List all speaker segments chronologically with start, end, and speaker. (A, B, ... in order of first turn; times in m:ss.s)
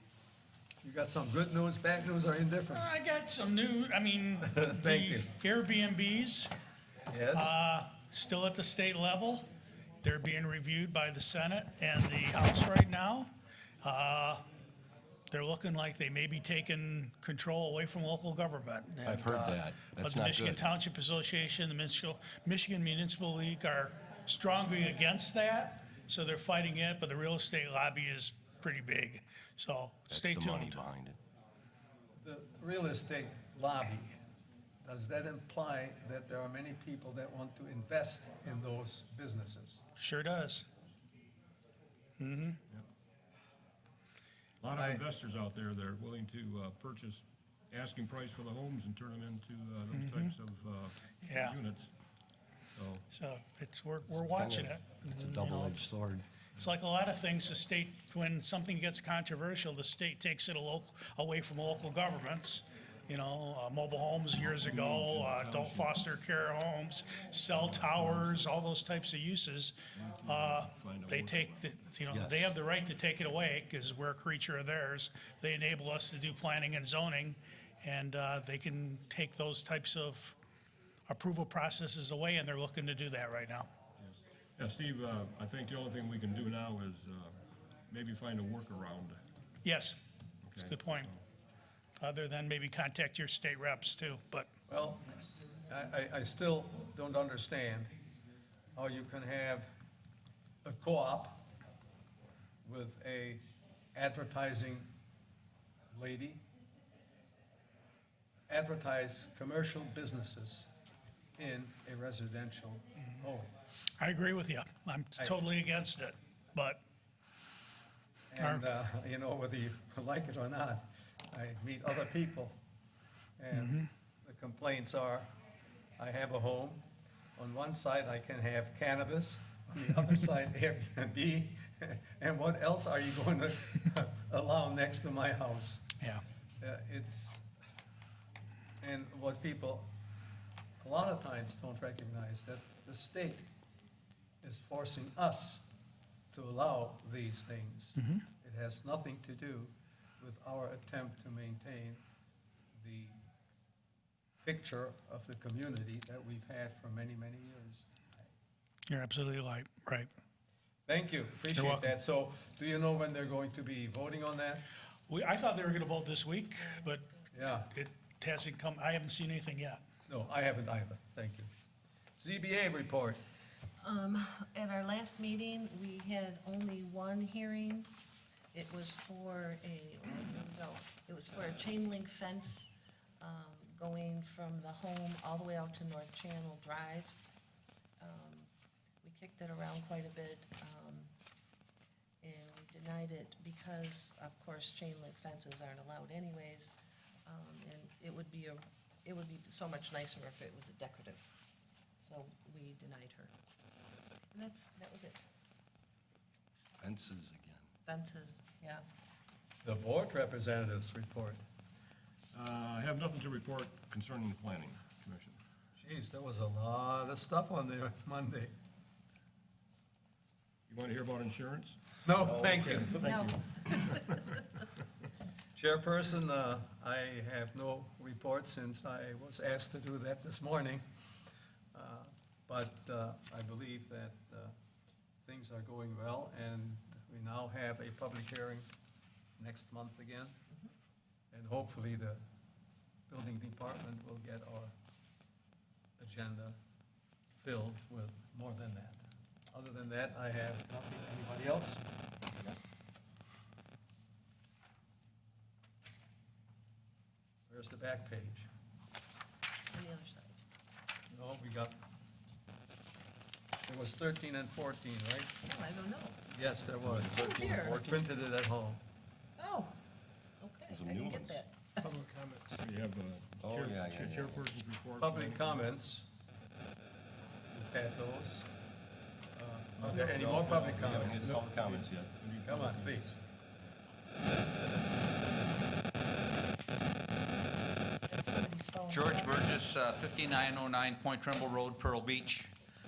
0:00.8-0:02.9 A
0:02.7-0:06.5 B
0:04.4-0:05.3 A
0:07.1-0:07.6 A
0:07.3-0:09.5 B
0:10.0-0:13.3 B
0:13.8-0:14.4 B
0:15.3-0:30.8 B
0:19.0-0:20.6 C
0:30.1-0:31.2 C
0:32.2-0:34.2 A
0:34.8-0:39.8 A
0:40.0-0:40.7 B
0:42.2-0:42.6 B
0:44.6-0:51.9 D
0:44.7-0:45.0 A
0:49.9-0:50.3 B
0:51.2-0:51.6 B
0:52.7-0:53.1 D
0:53.1-0:55.8 B
0:54.1-0:56.3 C
0:56.6-1:20.4 B
1:04.4-1:06.0 D
1:07.5-1:08.5 D
1:09.9-1:11.9 D
1:12.1-1:12.5 C
1:21.1-1:23.7 B
1:24.0-1:27.3 D
1:27.9-1:29.2 D
1:29.6-1:30.0 B
1:30.4-1:31.2 D
1:30.6-1:31.1 B
1:32.0-1:34.5 B
1:34.7-1:37.9 A
1:38.7-1:39.7 A
1:40.6-1:41.4 A
1:42.6-1:44.9 A
1:45.9-1:46.4 A
1:48.5-1:50.7 A
1:51.4-1:53.5 A
1:54.0-1:56.8 B
1:58.3-2:02.6 A
1:58.4-1:58.6 B
2:03.4-2:05.3 A
2:03.5-2:03.8 B
2:06.0-2:06.8 A
2:07.4-2:15.9 A
2:16.6-2:17.5 A
2:18.8-2:19.9 A
2:20.8-2:23.4 A
2:24.4-2:25.8 A
2:26.3-2:32.0 A
2:28.0-2:28.2 B
2:32.8-2:33.2 A
2:34.4-2:38.3 A
2:38.9-2:40.1 B
2:40.9-2:44.6 A
2:41.5-2:41.9 B
2:45.1-2:47.1 B
2:46.6-2:47.3 E
2:47.3-2:47.7 A
2:47.7-2:49.8 B
2:50.1-2:51.5 A
2:52.2-2:53.2 A
2:53.8-2:57.9 E
2:58.5-3:07.2 E
3:08.0-3:08.5 E
3:09.0-3:11.1 E
3:12.2-3:21.3 E
3:22.0-3:23.3 E
3:24.3-3:25.2 E
3:26.8-3:27.7 C
3:27.8-3:28.8 E
3:29.6-3:31.4 A
3:32.3-3:35.4 D
3:35.8-3:38.5 A
3:40.7-3:44.3 D
3:42.0-3:43.1 A
3:42.9-3:44.5 E
3:45.5-3:50.8 A
3:51.7-3:54.5 A
3:55.2-3:58.7 A
3:59.4-4:00.3 A
4:01.3-4:02.2 A
4:03.1-4:04.7 A
4:06.0-4:06.6 A
4:07.4-4:11.8 A
4:17.5-4:18.5 A
4:19.7-4:20.4 E
4:21.1-4:21.8 A
4:23.6-4:25.4 A
4:25.4-4:26.2 E
4:26.3-4:28.8 A
4:26.8-4:28.0 C
4:27.1-4:27.9 E
4:29.4-4:29.8 E
4:30.4-4:31.9 E
4:30.7-4:31.4 C
4:31.8-4:35.8 D
4:33.4-4:34.4 C
4:35.0-4:36.1 A
4:37.5-4:38.5 A
4:39.4-4:41.5 A
4:39.8-4:43.1 D
4:40.2-4:42.1 C
4:42.4-4:43.2 A
4:47.6-4:49.6 E
4:48.9-4:52.5 F